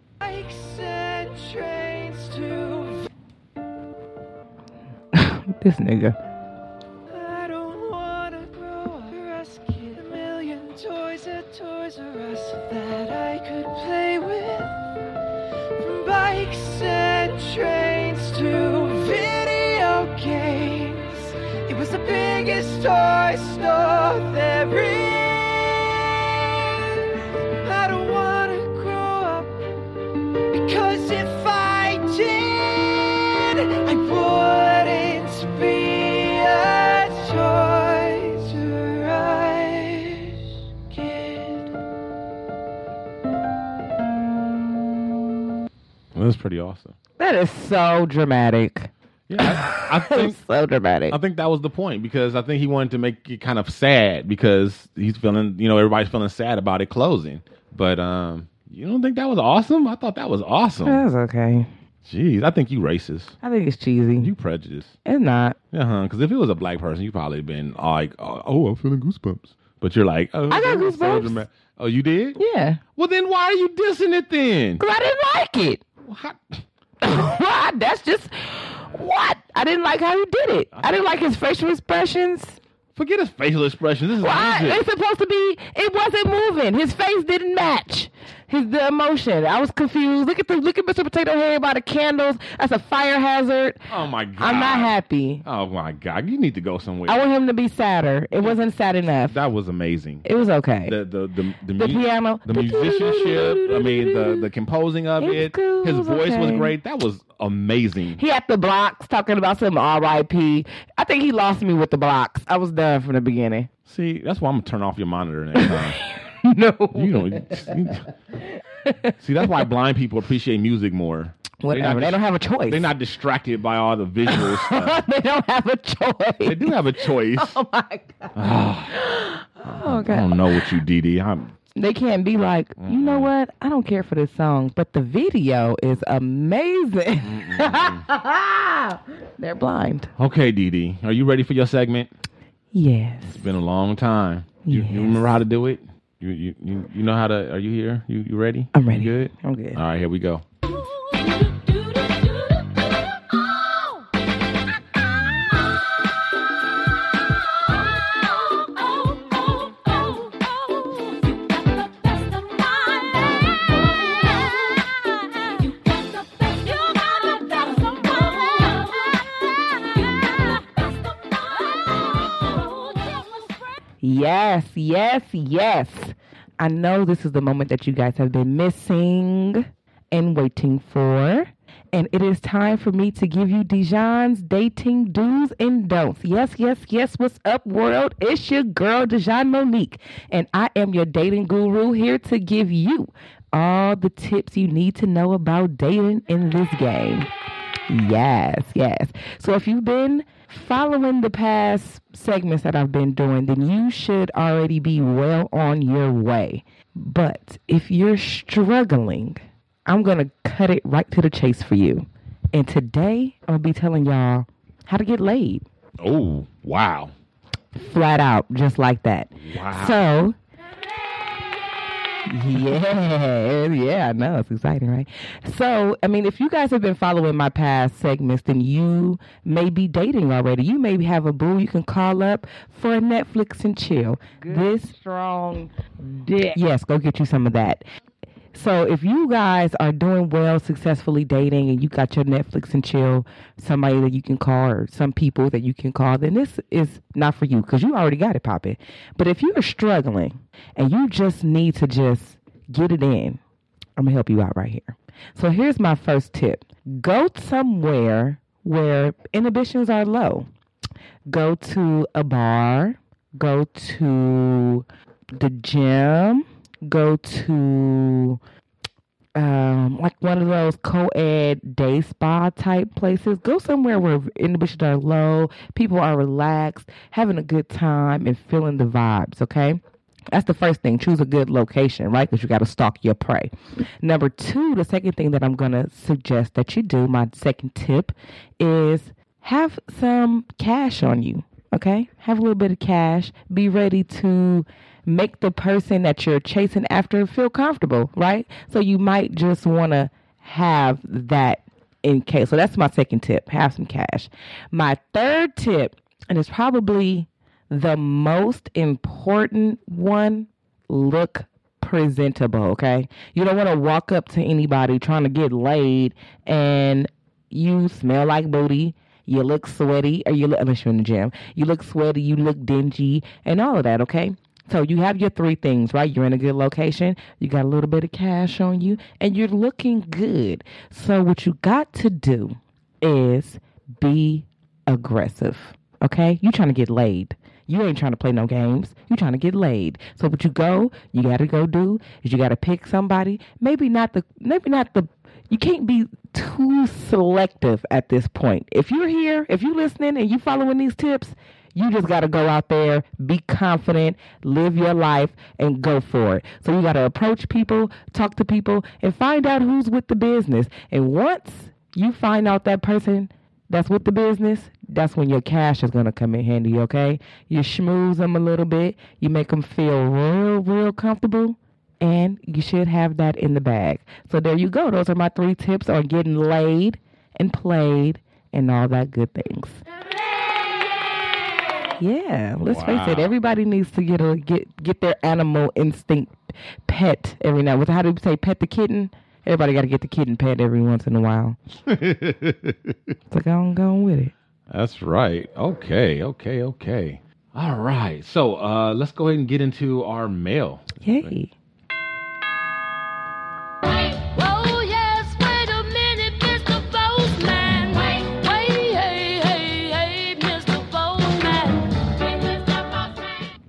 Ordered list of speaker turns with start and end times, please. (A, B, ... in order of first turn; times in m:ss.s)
0:00.2-0:03.1 A
0:05.1-0:06.2 B
0:07.1-0:14.8 A
0:15.8-0:29.6 A
0:30.5-0:40.4 A
0:40.9-0:41.7 A
0:46.1-0:46.9 C
0:47.2-0:51.2 B
0:49.3-0:50.4 C
0:51.1-1:01.0 C
1:00.8-1:01.7 B
1:02.0-1:03.4 C
1:03.4-1:04.3 B
1:04.2-1:04.9 C
1:05.0-1:05.6 B
1:05.7-1:12.4 C
1:10.5-1:11.4 B
1:12.4-1:12.8 B
1:13.0-1:14.8 C
1:14.8-1:15.8 B
1:16.0-1:16.6 C
1:17.0-1:22.6 B
1:20.7-1:21.2 C
1:22.9-1:24.8 C
1:24.2-1:35.4 B
1:33.9-1:37.2 C
1:37.1-1:39.4 B
1:39.2-1:40.2 C
1:40.2-1:41.0 B
1:40.8-1:48.2 C
1:41.8-1:44.5 B
1:45.2-1:46.7 B
1:48.2-1:53.7 B
1:53.8-1:56.0 C
1:55.5-1:57.9 B
1:56.9-1:58.0 C
1:58.8-1:59.5 B
1:59.2-2:05.0 C
2:01.6-2:02.9 B
2:04.3-2:10.7 B
2:06.4-2:07.6 C
2:08.3-2:09.0 C
2:09.6-2:11.6 C
2:11.7-2:20.1 B
2:12.8-2:13.3 C
2:17.2-2:18.0 C
2:20.2-2:22.1 C
2:22.7-2:23.4 B
2:23.3-2:30.4 C
2:24.6-2:25.4 B
2:28.7-2:29.8 B
2:30.6-2:34.1 D
2:34.9-2:53.7 D
2:54.0-3:17.3 B
3:17.9-3:35.6 B
3:36.0-3:37.1 C
3:37.8-3:40.3 B
3:39.4-3:40.0 C
3:42.2-3:55.7 B
3:56.3-3:57.8 B
3:58.5-4:13.4 B
4:14.0-4:20.4 B
4:21.3-4:28.4 B
4:29.4-4:39.8 B
4:40.3-4:43.5 B
4:44.0-6:19.8 B
6:22.0-6:31.6 B
6:22.6-6:23.3 C
6:31.9-6:33.0 C
6:33.3-6:34.3 B
6:34.7-6:41.3 C
6:41.0-6:41.5 B
6:43.8-6:53.5 D